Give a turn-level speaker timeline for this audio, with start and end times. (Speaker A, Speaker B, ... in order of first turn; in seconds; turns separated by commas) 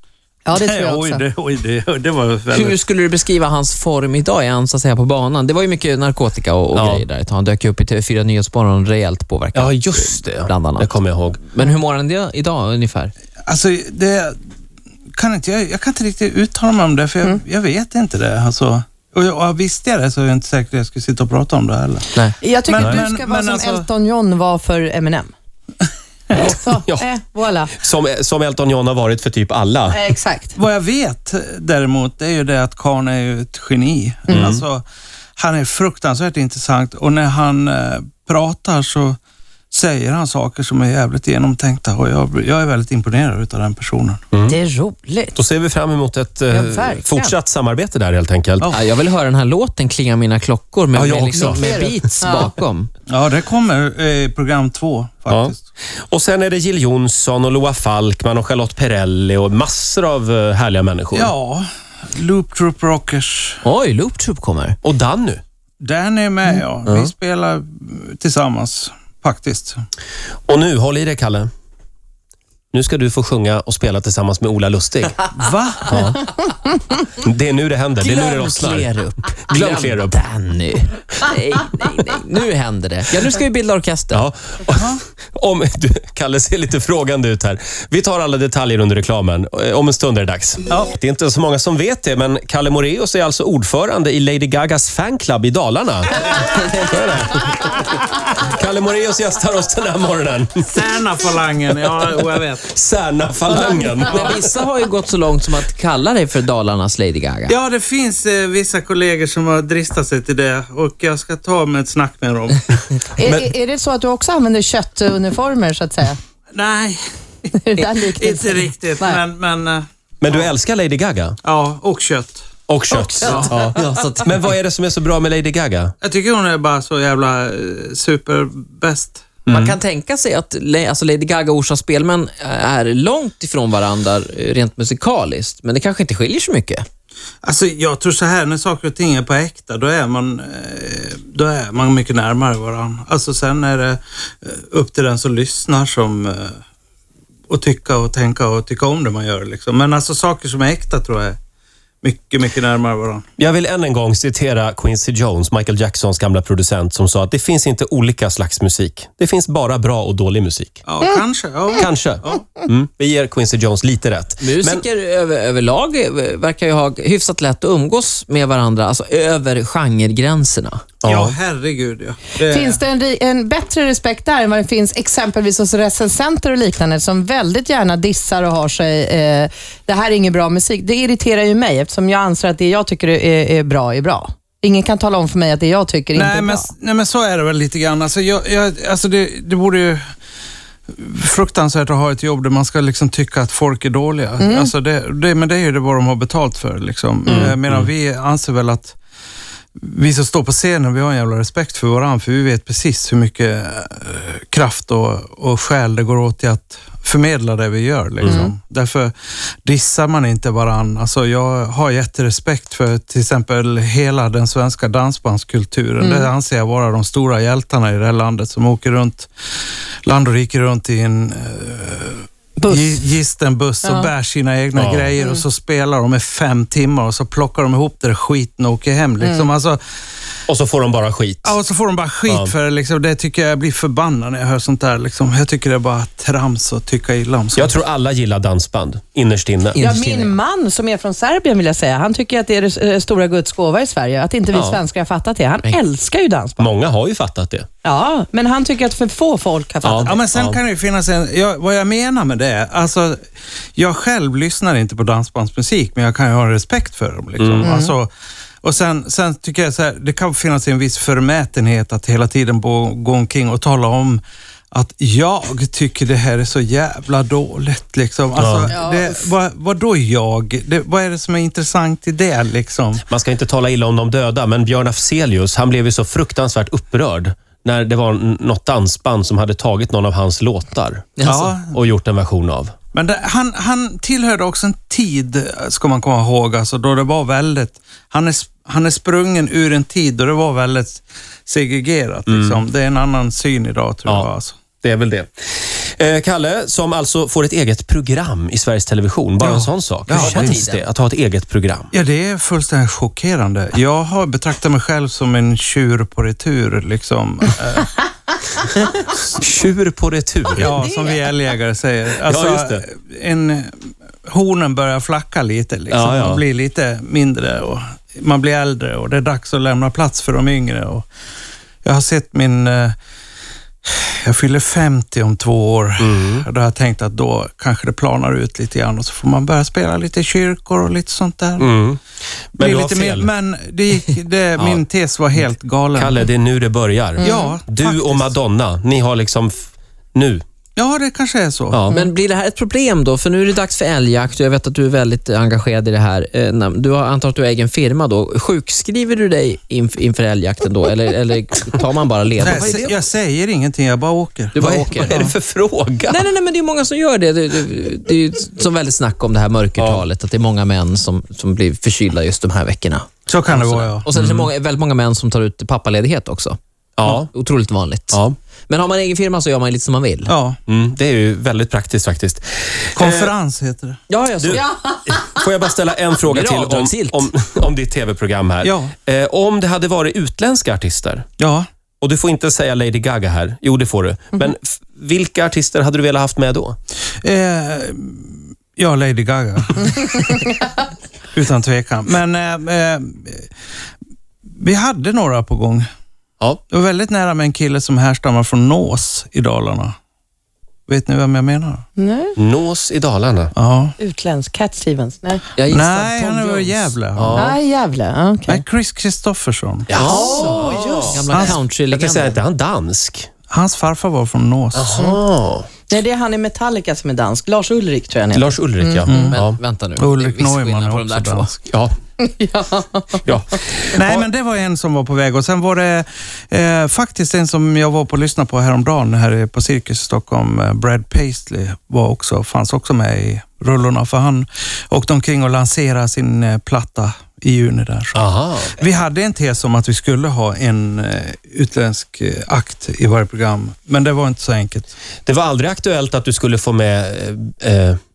Speaker A: 0.5-1.2, Speaker B: 0.5-2.8, Speaker C: 2.5-13.1, Speaker D: 6.7-7.0, Speaker D: 9.5-11.4, Speaker B: 13.5-14.4, Speaker B: 15.2-22.1, Speaker A: 22.4-25.3, Speaker B: 22.6-23.9, Speaker D: 22.8-23.1, Speaker A: 26.3-27.7, Speaker D: 26.4-27.1, Speaker D: 27.7-30.0, Speaker A: 29.9-30.6, Speaker B: 30.6-34.9, Speaker D: 34.3-34.6, Speaker B: 35.4-39.2, Speaker B: 39.7-44.2, Speaker D: 44.3-44.6, Speaker A: 44.4-45.4, Speaker D: 45.4-48.7, Speaker A: 46.5-47.4, Speaker C: 48.7-52.9, Speaker D: 50.9-51.7, Speaker A: 51.3-52.5, Speaker B: 53.1-55.6, Speaker D: 55.3-61.3, Speaker B: 61.1-63.6, Speaker C: 63.6-64.8, Speaker D: 64.8-65.4, Speaker B: 65.8-69.8, Speaker D: 70.5-71.5, Speaker D: 72.7-75.2, Speaker B: 75.3-76.0, Speaker D: 75.9-76.3, Speaker D: 77.0-78.9, Speaker C: 78.0-84.2, Speaker D: 79.5-80.2, Speaker D: 84.1-100.7, Speaker B: 84.7-85.0, Speaker B: 90.7-90.9, Speaker B: 100.7-102.7, Speaker D: 102.7-104.4, Speaker C: 104.0-107.5, Speaker B: 107.5-112.7, Speaker A: 113.2-116.2, Speaker D: 113.2-113.5, Speaker B: 116.5-120.5, Speaker A: 117.6-119.2, Speaker D: 120.2-121.4, Speaker B: 121.4-122.4, Speaker D: 122.7-125.9, Speaker B: 123.2-123.5, Speaker A: 123.2-123.6, Speaker C: 123.2-124.3, Speaker B: 126.0-129.3, Speaker D: 129.5-129.8, Speaker C: 129.5-136.8, Speaker B: 137.4-146.6, Speaker B: 147.5-151.4, Speaker B: 152.0-153.2, Speaker D: 153.4-160.8, Speaker B: 160.8-162.4, Speaker D: 161.8-164.8, Speaker C: 164.4-170.8, Speaker D: 171.0-171.3, Speaker B: 171.1-172.8, Speaker A: 172.5-186.7, Speaker B: 186.2-190.0, Speaker B: 190.9-199.0, Speaker A: 194.4-194.7, Speaker D: 197.3-197.9, Speaker B: 199.8-209.1, Speaker D: 208.2-208.5, Speaker A: 208.2-208.5, Speaker B: 209.7-219.3, Speaker A: 216.0-216.3, Speaker B: 220.1-229.8, Speaker A: 222.6-223.0, Speaker A: 223.8-224.1, Speaker D: 224.8-225.1, Speaker A: 229.2-229.5, Speaker D: 230.5-231.6, Speaker B: 231.4-237.7, Speaker D: 232.3-232.5, Speaker D: 237.6-239.9, Speaker C: 239.8-240.3, Speaker A: 239.8-246.7, Speaker D: 244.5-244.8, Speaker D: 246.6-247.7, Speaker A: 247.8-250.2, Speaker D: 249.8-250.6, Speaker B: 250.0-253.2, Speaker B: 253.8-258.1, Speaker D: 257.4-257.7, Speaker A: 257.6-257.9, Speaker B: 258.6-264.2, Speaker B: 264.7-273.0, Speaker D: 268.4-268.7, Speaker A: 268.7-269.3, Speaker D: 273.1-281.1, Speaker C: 281.2-281.5, Speaker B: 281.2-281.8, Speaker D: 281.7-282.7, Speaker B: 282.9-294.6, Speaker D: 292.3-292.6, Speaker D: 294.8-301.9, Speaker B: 299.4-300.6, Speaker C: 300.1-300.8, Speaker B: 301.9-307.9, Speaker D: 309.3-310.8, Speaker B: 310.6-313.7, Speaker D: 312.3-312.8, Speaker B: 314.3-321.1, Speaker D: 315.9-316.4, Speaker B: 321.8-322.9, Speaker B: 323.9-331.7, Speaker D: 326.0-326.4, Speaker D: 331.6-332.0, Speaker D: 332.5-333.3, Speaker B: 332.6-336.2, Speaker D: 335.9-340.4, Speaker A: 337.2-337.6, Speaker B: 337.2-338.3, Speaker B: 340.8-341.8, Speaker D: 341.7-342.0, Speaker C: 341.9-352.7, Speaker B: 352.4-355.3, Speaker D: 352.4-353.0, Speaker C: 354.6-355.2, Speaker D: 354.6-356.2, Speaker C: 356.1-370.3, Speaker D: 359.8-360.1, Speaker B: 363.3-364.1, Speaker D: 364.1-364.5, Speaker D: 367.0-367.3, Speaker D: 368.1-368.4, Speaker B: 370.3-370.6, Speaker D: 370.7-373.3, Speaker B: 373.0-374.0, Speaker C: 374.1-374.6, Speaker D: 374.4-381.3, Speaker C: 376.3-377.3, Speaker B: 378.6-378.9, Speaker B: 381.4-381.7, Speaker D: 382.0-386.8, Speaker B: 387.2-390.5, Speaker B: 391.3-393.5, Speaker B: 394.6-395.9, Speaker B: 396.7-399.9, Speaker B: 400.9-401.9, Speaker A: 402.0-402.4, Speaker D: 402.4-403.5, Speaker B: 403.6-404.0, Speaker A: 404.0-405.4, Speaker C: 405.6-406.9, Speaker B: 405.7-407.5, Speaker D: 407.2-407.6, Speaker A: 407.3-408.6, Speaker B: 408.5-409.9, Speaker D: 409.9-413.3, Speaker A: 409.9-411.1, Speaker C: 410.0-412.4, Speaker B: 411.3-411.6, Speaker B: 413.5-415.0, Speaker D: 414.8-415.7, Speaker A: 415.9-419.3, Speaker D: 418.3-419.6, Speaker B: 419.1-419.4, Speaker C: 419.3-421.5, Speaker B: 420.0-421.6, Speaker A: 422.2-423.8, Speaker D: 423.2-424.3, Speaker B: 423.9-444.9, Speaker D: 438.1-438.8, Speaker D: 445.3-448.0